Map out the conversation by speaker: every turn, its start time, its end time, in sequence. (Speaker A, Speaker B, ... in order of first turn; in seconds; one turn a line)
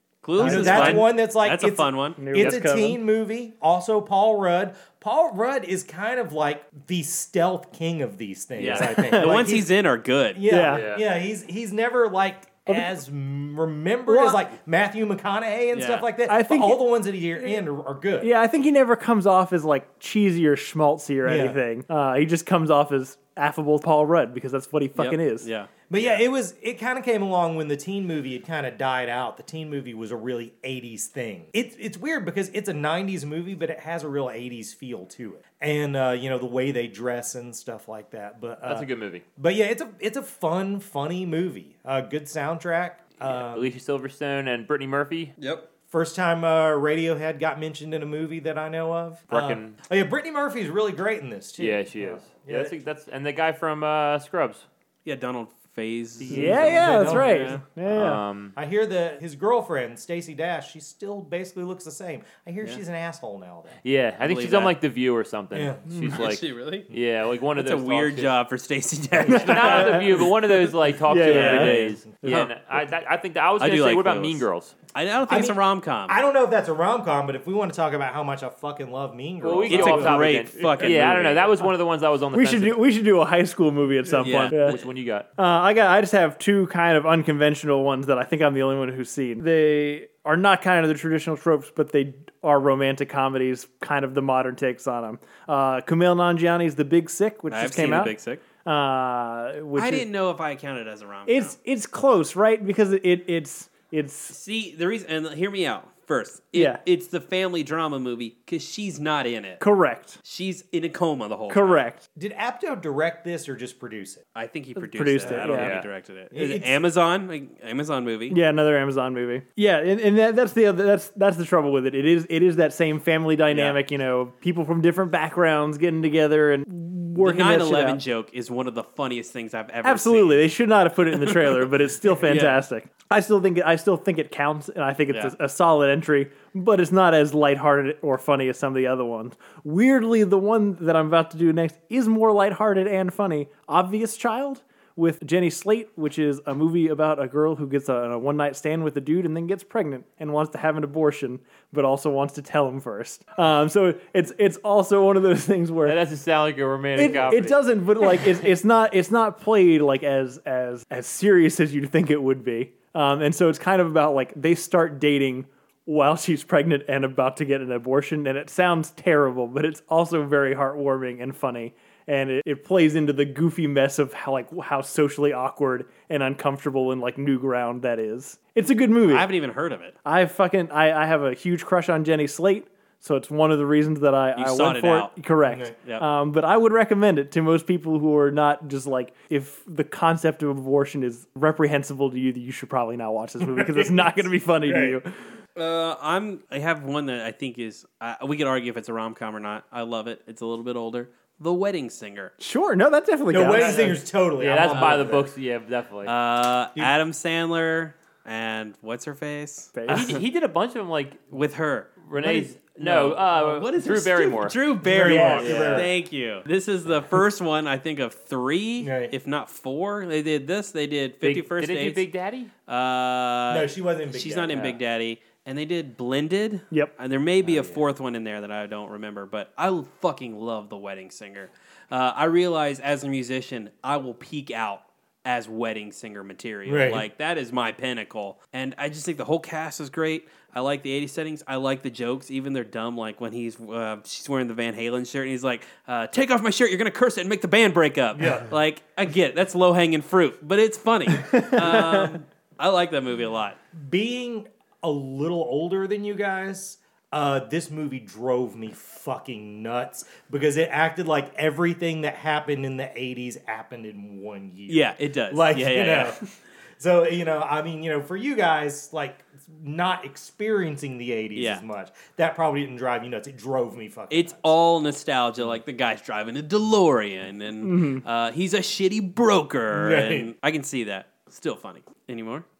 Speaker A: 0.2-2.2
Speaker B: 0.4-9.7
Speaker C: 0.4-1.1
Speaker C: 2.2-3.0
Speaker D: 2.4-2.6
Speaker A: 8.6-10.4
Speaker C: 8.7-9.5
Speaker B: 10.3-18.3
Speaker C: 10.5-10.9
Speaker D: 10.6-11.1
Speaker C: 14.1-14.4
Speaker A: 15.7-16.1
Speaker C: 16.3-16.8
Speaker C: 18.2-25.5
Speaker B: 21.2-21.6
Speaker A: 24.9-26.2
Speaker B: 25.9-43.7
Speaker D: 38.6-39.2
Speaker D: 43.2-45.3
Speaker A: 45.4-45.7
Speaker B: 45.9-52.7
Speaker D: 49.3-49.8
Speaker D: 51.6-54.6
Speaker A: 55.0-57.6
Speaker D: 56.2-56.9
Speaker C: 56.3-58.2
Speaker B: 56.4-57.6
Speaker D: 57.9-58.5
Speaker B: 58.6-63.8
Speaker D: 63.8-68.3
Speaker A: 64.2-64.8
Speaker B: 65.5-66.1
Speaker A: 66.1-66.9
Speaker A: 67.6-70.2
Speaker D: 69.3-74.7
Speaker C: 69.3-72.4
Speaker A: 71.2-72.5
Speaker A: 73.6-76.2
Speaker B: 75.3-81.5
Speaker D: 79.4-82.8
Speaker A: 79.7-81.4
Speaker C: 82.3-84.8
Speaker A: 84.2-84.8
Speaker D: 84.2-85.3
Speaker C: 85.4-100.1
Speaker A: 97.5-98.4
Speaker A: 99.8-101.6
Speaker C: 101.3-104.3
Speaker A: 104.3-109.6
Speaker C: 106.5-106.8
Speaker C: 109.6-110.2
Speaker A: 110.2-111.8
Speaker C: 111.5-112.0
Speaker B: 112.2-114.2
Speaker A: 114.3-118.4
Speaker C: 114.8-115.8
Speaker D: 115.5-115.9
Speaker B: 116.3-116.8
Speaker C: 118.3-128.0
Speaker A: 123.5-123.8
Speaker A: 127.2-130.5
Speaker C: 129.8-156.0
Speaker A: 131.1-131.6
Speaker A: 132.2-132.6
Speaker D: 155.8-158.1
Speaker C: 157.0-179.3
Speaker A: 179.1-180.0
Speaker C: 180.1-195.2
Speaker A: 184.4-185.1
Speaker B: 185.5-185.7
Speaker B: 193.4-195.0
Speaker A: 195.6-202.3
Speaker C: 202.4-204.0
Speaker B: 203.3-205.3
Speaker D: 203.6-203.9
Speaker D: 204.4-206.1
Speaker A: 204.7-205.1
Speaker A: 206.1-210.2
Speaker C: 209.7-210.1
Speaker D: 209.9-211.2
Speaker A: 211.3-222.1
Speaker D: 212.1-215.9
Speaker B: 214.8-215.9
Speaker C: 215.0-215.8
Speaker B: 218.8-219.1
Speaker D: 221.2-222.5
Speaker A: 222.7-253.6
Speaker B: 223.5-224.7
Speaker D: 227.4-227.8
Speaker B: 236.7-237.1
Speaker B: 248.2-248.5
Speaker C: 251.2-252.2
Speaker B: 253.8-274.6
Speaker A: 264.7-266.2
Speaker A: 271.4-271.6
Speaker A: 274.1-282.4
Speaker C: 277.6-278.0
Speaker B: 279.7-280.3